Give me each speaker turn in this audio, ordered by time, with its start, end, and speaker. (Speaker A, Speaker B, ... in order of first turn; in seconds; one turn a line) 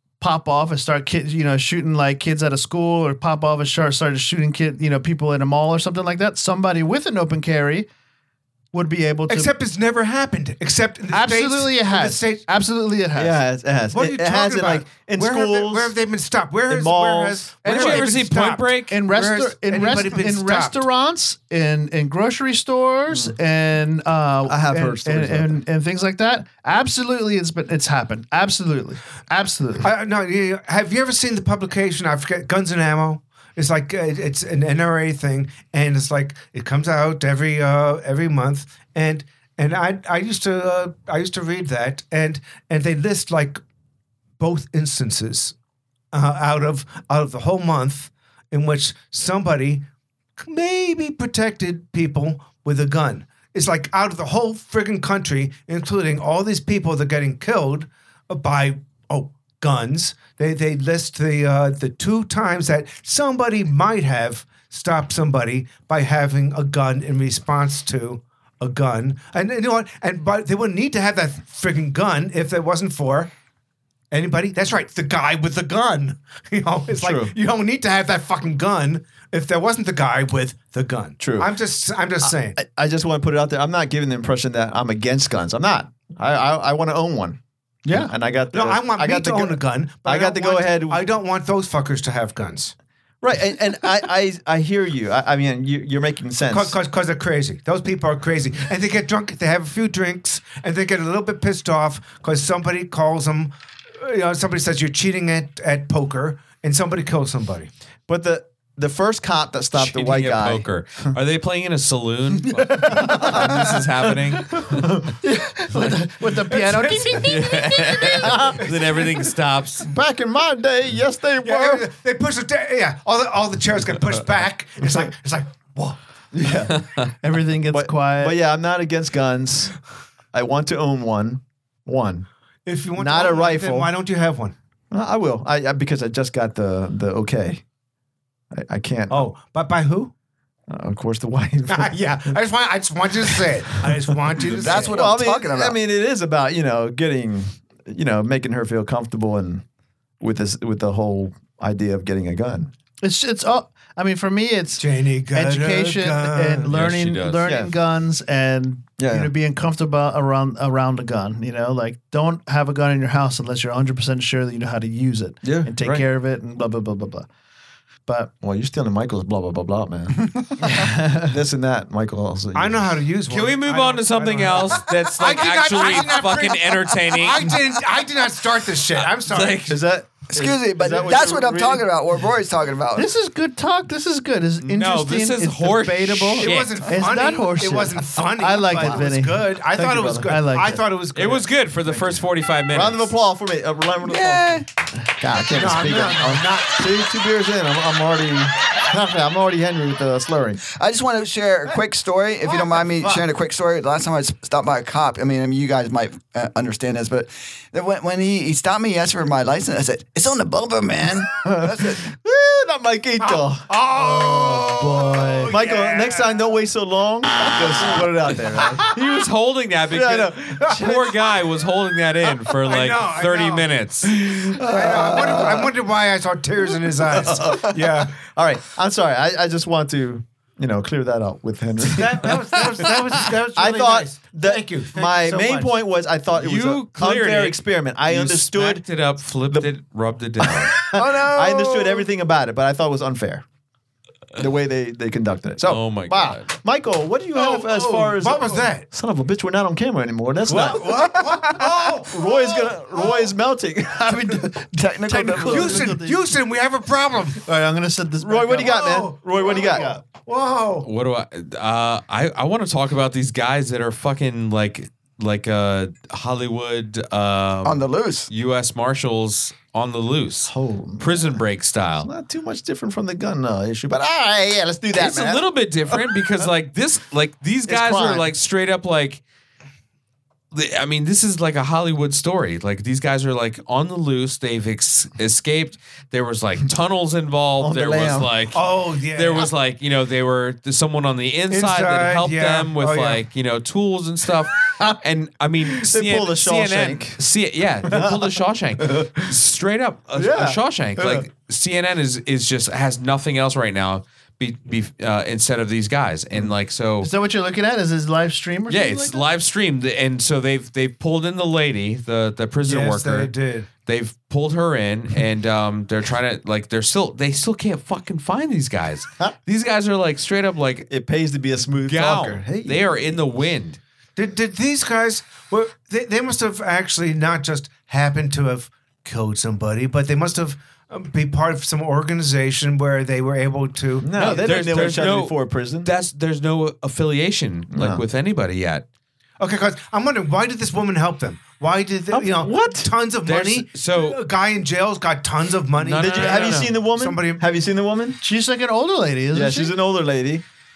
Speaker A: 0.2-7.9
Speaker A: 8.7-9.5
Speaker B: 9.3-12.4
Speaker A: 11.1-13.4
Speaker C: 13.1-15.9
Speaker B: 13.9-20.9
Speaker C: 16.7-18.0
Speaker D: 17.6-19.0
Speaker A: 18.9-29.9
Speaker C: 23.1-23.4
Speaker C: 24.5-25.6
Speaker B: 29.8-43.6
Speaker B: 44.4-45.5
Speaker B: 46.1-49.9
Speaker B: 50.4-73.3
Speaker B: 74.1-82.6
Speaker C: 76.9-77.3
Speaker C: 81.2-81.5
Speaker C: 82.2-91.0
Speaker A: 87.8-88.1
Speaker B: 88.5-92.7
Speaker C: 93.2-96.8
Speaker B: 96.5-107.7
Speaker C: 108.1-110.7
Speaker D: 109.7-114.9
Speaker A: 112.7-114.1
Speaker C: 113.1-113.7
Speaker A: 115.2-118.7
Speaker B: 116.5-117.2
Speaker D: 117.1-119.9
Speaker B: 118.6-119.0
Speaker C: 119.9-121.9
Speaker B: 121.4-126.0
Speaker C: 126.3-126.9
Speaker D: 126.8-127.1
Speaker A: 127.2-128.4
Speaker C: 127.7-129.8
Speaker C: 130.3-132.3
Speaker B: 132.6-134.5
Speaker C: 132.9-133.9
Speaker C: 134.9-137.6
Speaker C: 138.5-139.2
Speaker B: 139.1-140.1
Speaker C: 140.7-142.4
Speaker B: 141.7-145.0
Speaker C: 144.5-149.6
Speaker E: 144.5-145.8
Speaker C: 150.2-152.7
Speaker A: 153.0-167.3
Speaker B: 154.8-156.7
Speaker D: 156.7-157.4
Speaker C: 157.4-157.7
Speaker C: 159.0-159.3
Speaker C: 165.4-166.1
Speaker A: 168.1-168.3
Speaker C: 168.4-170.2
Speaker E: 170.2-170.5
Speaker A: 170.6-171.4
Speaker C: 171.2-173.0
Speaker B: 172.5-179.7
Speaker D: 173.3-177.6
Speaker D: 179.0-179.8
Speaker C: 179.7-181.9
Speaker E: 180.3-183.1
Speaker A: 182.9-189.5
Speaker D: 184.6-187.0
Speaker B: 186.4-191.5
Speaker C: 188.7-189.0
Speaker C: 189.7-190.3
Speaker A: 190.2-190.8
Speaker D: 191.1-193.1
Speaker C: 192.7-200.6
Speaker D: 194.1-194.6
Speaker B: 195.5-196.9
Speaker E: 200.7-212.0
Speaker C: 211.4-218.9
Speaker B: 213.2-216.5
Speaker A: 214.8-215.5
Speaker D: 218.9-224.2
Speaker C: 219.9-221.2
Speaker B: 222.6-223.7
Speaker C: 224.2-225.7
Speaker B: 224.6-228.2
Speaker C: 227.0-232.9
Speaker B: 231.8-235.8
Speaker C: 233.5-238.8
Speaker D: 236.3-240.7
Speaker C: 240.4-243.4
Speaker E: 240.9-242.1
Speaker C: 244.4-254.4
Speaker D: 245.6-246.5
Speaker B: 247.3-248.9
Speaker B: 250.5-253.3
Speaker A: 254.1-254.5
Speaker E: 254.7-255.9
Speaker A: 255.1-256.3
Speaker C: 255.3-255.7
Speaker B: 255.5-257.4
Speaker A: 257.4-260.0
Speaker C: 258.2-259.9
Speaker B: 258.6-260.9
Speaker D: 260.9-272.1
Speaker E: 267.6-268.3
Speaker C: 270.5-271.4
Speaker C: 272.0-276.5
Speaker D: 274.9-279.2
Speaker C: 277.7-278.3
Speaker D: 280.5-307.1
Speaker C: 287.6-288.3
Speaker B: 288.5-289.5
Speaker B: 291.5-293.2
Speaker C: 295.7-297.2
Speaker C: 297.9-299.3
Speaker C: 300.1-301.3
Speaker A: 307.0-309.2
Speaker D: 308.7-313.3
Speaker B: 312.6-313.7
Speaker D: 313.9-320.9
Speaker C: 320.9-323.2
Speaker D: 321.6-323.8
Speaker B: 324.1-334.8
Speaker C: 334.0-335.9
Speaker D: 334.1-338.9
Speaker C: 337.7-338.0
Speaker B: 339.4-347.4
Speaker C: 342.1-342.9
Speaker D: 343.2-344.2
Speaker D: 345.8-346.8
Speaker C: 346.0-348.2
Speaker A: 348.2-349.8
Speaker C: 349.3-350.4